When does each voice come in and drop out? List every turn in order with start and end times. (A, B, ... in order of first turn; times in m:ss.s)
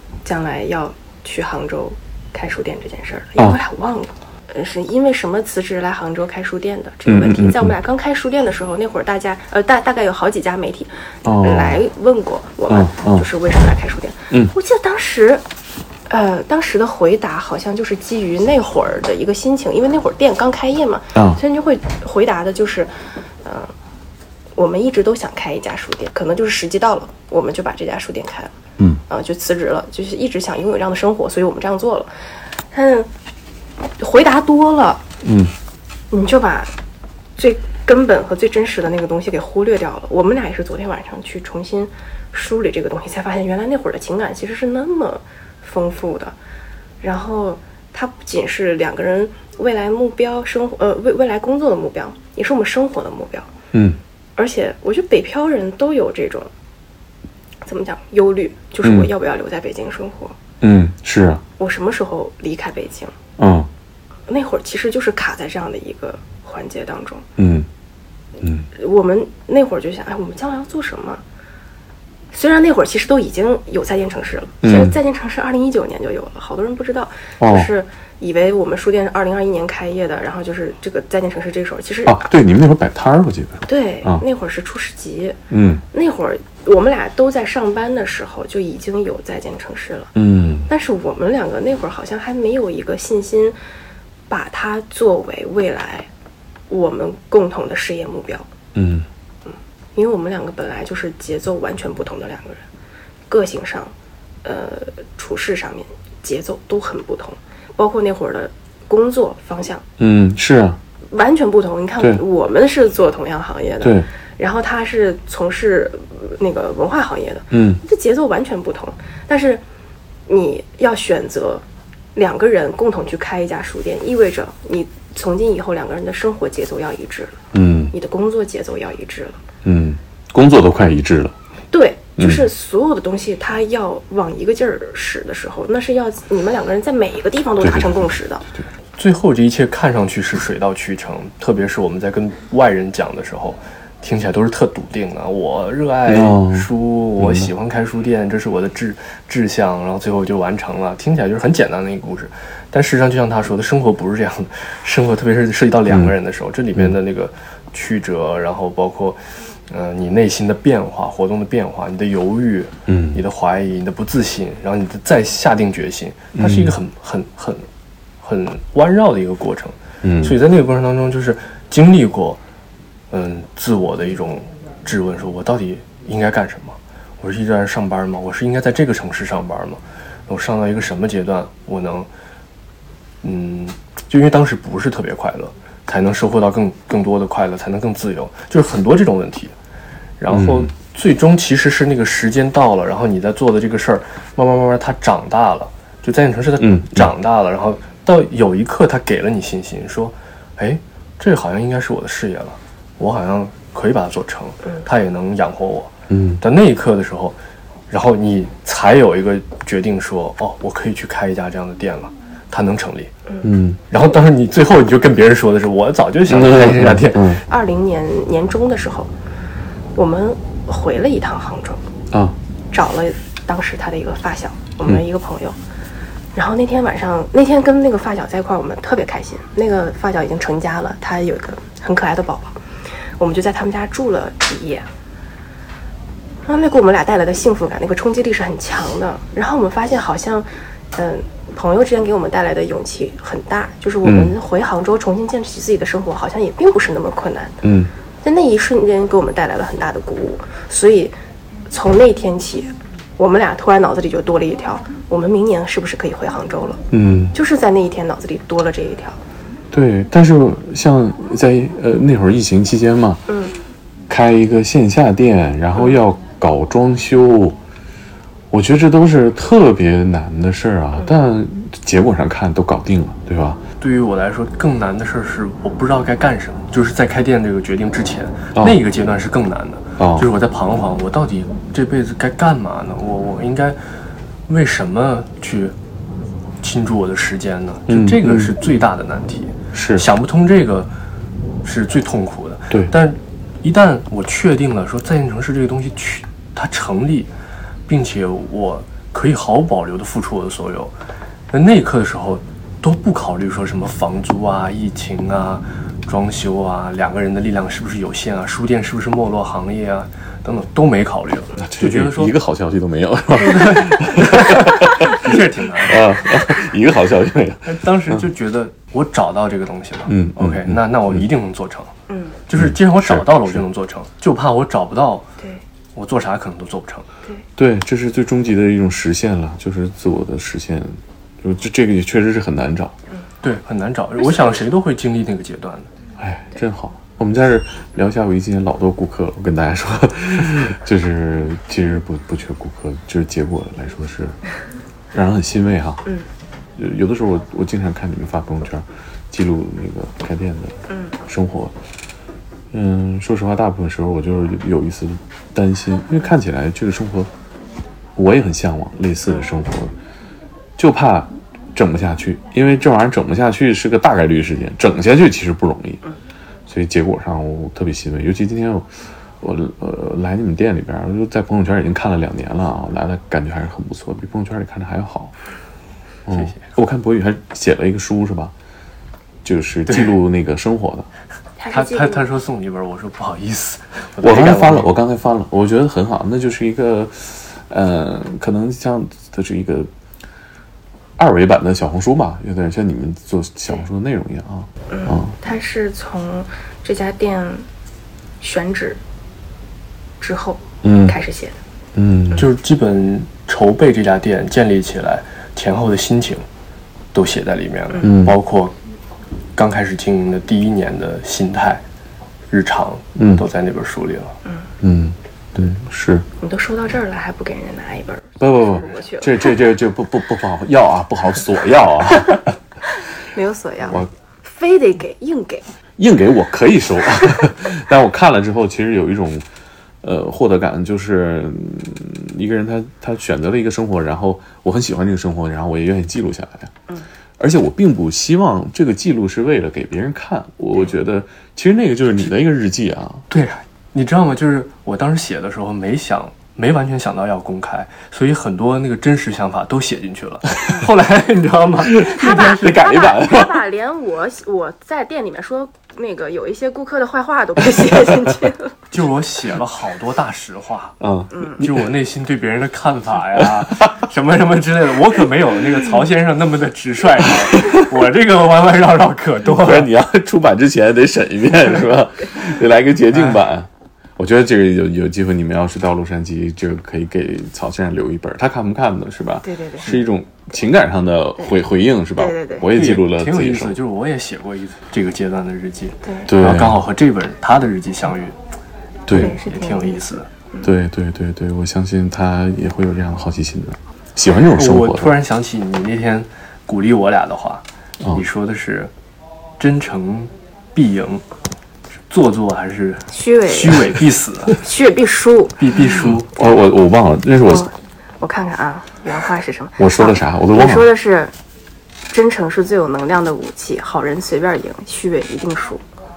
0:00.2-0:15.4 A
0:07.0-0:07.7 B
0:11.2-0:11.8 B
0:12.7-0:13.3 B
0:16.1-0:22.9 A
0:21.1-0:21.4 B
0:23.4-0:23.7 A
0:24.6-0:28.5 A
0:29.1-0:32.1 A
0:32.7-0:33.1 A
0:34.0-0:35.0 A
0:35.2-0:35.5 B
0:36.1-0:36.7 A
0:37.4-0:46.4 A
0:47.0-0:53.5 A
0:53.7-0:54.0 B
0:54.4-0:56.5 A
0:57.6-1:00.4 A
0:58.8-0:59.1 B
1:00.6-1:01.4 B
1:01.6-1:03.1 A
1:03.4-1:03.7 B
1:04.3-1:07.2 A
1:07.4-1:07.7 B
1:08.4-1:08.7 B
1:08.7-1:11.2 A
1:12.3-1:22.3 A
1:14.6-1:15.0 B
1:17.4-1:17.7 B
1:22.0-1:24.2 B
1:23.7-1:25.4 A
1:25.5-1:25.8 B
1:25.9-1:30.1 A
1:30.1-1:30.7 B
1:30.7-1:33.6 A
1:34.3-1:36.1 A
1:36.7-1:38.5 A
1:38.7-1:39.0 B
1:39.4-1:42.6 A
1:43.3-1:49.8 A
1:50.0-1:50.8 B
1:51.1-1:59.6 A
1:53.8-1:54.1 B
1:57.5-1:57.8 B
2:00.3-2:01.6 A
2:02.1-2:07.4 A
2:07.5-2:07.9 B
2:07.9-2:09.4 A
2:09.6-2:11.3 B
2:11.7-2:18.5 A
2:12.2-2:12.5 B
2:17.6-2:18.7 B
2:19.0-2:47.7 C
2:26.1-2:27.5 B
2:42.9-2:43.2 B
2:46.4-2:46.8 B
2:48.2-2:52.4 C
2:50.0-2:50.4 B
2:53.1-3:02.1 C
3:03.2-3:09.5 C
3:10.2-3:27.4 C
3:10.3-3:10.7 B
3:16.6-3:17.1 B
3:26.1-3:26.4 B
3:27.9-3:33.1 C
3:33.4-3:33.8 B
3:33.9-3:37.4 C
3:36.3-3:37.4 B
3:37.5-3:39.1 A
3:39.9-3:41.8 A
3:42.1-3:42.4 B
3:42.7-3:45.6 A
3:46.3-3:52.6 A
3:53.2-3:54.9 A
3:56.4-4:07.6 A
4:04.0-4:04.3 B
4:07.6-4:07.9 B
4:08.2-4:11.1 A
4:11.7-4:16.8 A
4:16.9-4:17.3 B
4:17.3-4:19.2 A
4:19.7-4:23.3 B
4:23.3-4:23.5 A
4:24.1-4:27.6 B
4:28.5-4:33.6 B
4:33.8-4:43.8 C
4:38.5-4:38.8 B
4:40.0-4:40.3 B
4:44.5-4:45.7 C
4:46.6-4:50.9 C
4:47.9-4:48.5 B
4:49.7-4:50.1 B
4:51.6-4:57.3 C
4:57.9-5:00.9 C
5:01.5-5:12.3 C
5:11.6-5:18.2 B
5:13.4-5:16.1 C
5:17.6-5:21.9 C
5:20.1-5:21.3 B
5:22.1-5:22.4 A
5:22.5-5:25.3 C
5:22.6-5:23.6 B
5:25.9-5:27.1 C
5:27.6-5:33.0 B
5:33.4-5:35.9 C
5:36.2-5:44.4 B
5:45.1-5:46.0 B
5:46.8-5:51.7 B
5:50.9-5:51.1 A
5:52.7-5:57.3 B
5:58.2-5:59.9 B
6:00.8-6:06.0 B
6:06.7-6:08.9 B
6:09.4-6:15.3 B
6:16.2-6:18.5 B
6:16.3-6:16.7 C
6:19.4-6:21.1 B
6:21.6-6:22.3 A
6:21.7-6:24.9 C
6:24.2-6:29.9 B
6:31.2-6:35.4 B
6:34.9-6:37.7 A
6:38.4-6:39.0 A
6:40.2-6:41.6 A
6:40.8-6:41.2 B
6:41.9-6:42.5 B
6:42.4-6:46.4 C
6:47.1-6:48.7 C
6:48.0-6:48.4 B
6:49.6-6:51.8 C
6:52.5-6:54.4 C
6:53.2-6:53.4 B
6:54.8-6:56.2 B
6:56.4-6:59.5 A
6:58.4-7:02.5 B
7:03.1-7:05.6 A
7:06.0-7:09.4 B
7:10.0-7:16.7 B
7:17.4-7:23.2 B
7:23.3-7:32.9 C
7:31.8-7:33.6 B
7:32.0-7:38.7 A
7:37.8-7:38.3 B
7:38.9-7:41.0 C
7:41.0-7:41.9 B
7:41.3-7:41.6 A
7:41.6-7:49.9 C
7:43.4-7:44.0 B
7:47.2-7:47.9 B
7:49.5-8:03.8 B
7:53.1-7:53.4 C
7:59.4-7:59.9 A
8:02.1-8:02.7 A
8:02.7-8:08.4 C
8:06.0-8:06.3 A
8:06.3-8:06.8 B
8:09.1-8:09.4 B
8:09.1-8:10.3 C
8:09.1-8:10.7 A
8:10.6-8:15.2 B
8:14.5-8:18.9 C
8:19.6-8:21.2 C
8:22.1-8:24.6 C
8:23.1-8:23.8 A
8:24.5-8:25.8 A
8:25.6-8:26.3 C
8:25.8-8:27.7 B
8:27.4-8:31.3 A
8:29.8-8:30.9 B
8:32.1-8:35.8 A